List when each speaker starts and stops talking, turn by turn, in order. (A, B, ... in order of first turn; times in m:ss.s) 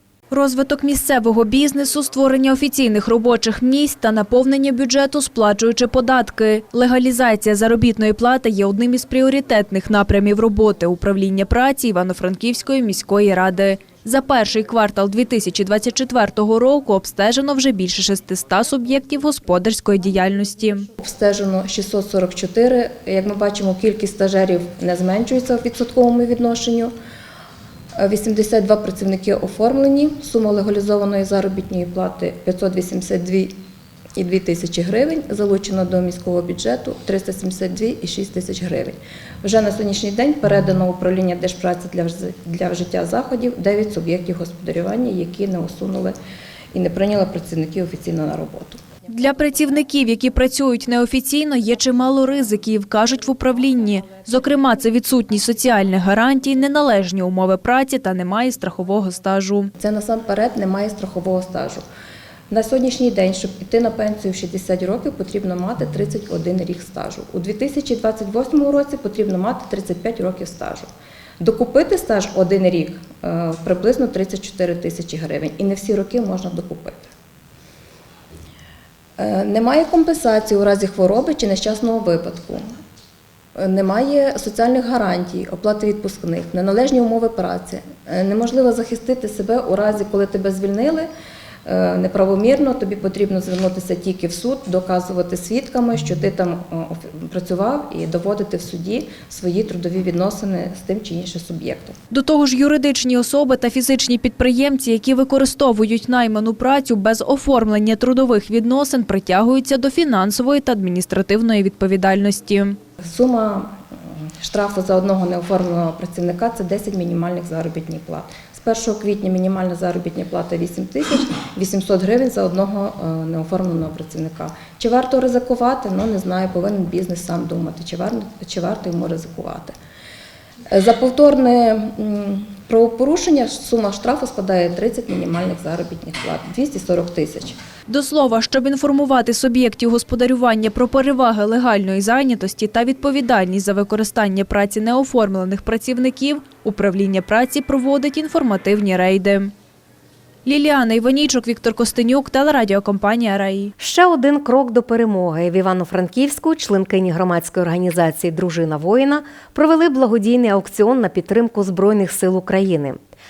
0:00.3-0:20.9 A
0:21.0-0:26.9 B
0:28.0-0:33.6 B
0:34.2-0:46.2 B
0:46.7-0:48.8 B
0:49.1-0:59.7 A
0:59.8-1:01.8 B
1:02.5-1:10.9 B
1:11.4-1:17.1 B
1:19.2-1:22.6 B
1:23.6-1:31.1 B
1:31.7-1:42.0 B
1:42.1-1:52.8 A
1:53.0-1:53.8 B
1:54.4-2:09.7 B
2:10.7-2:17.6 B
2:17.9-2:29.5 A
2:30.5-2:33.7 A
2:33.8-2:43.0 C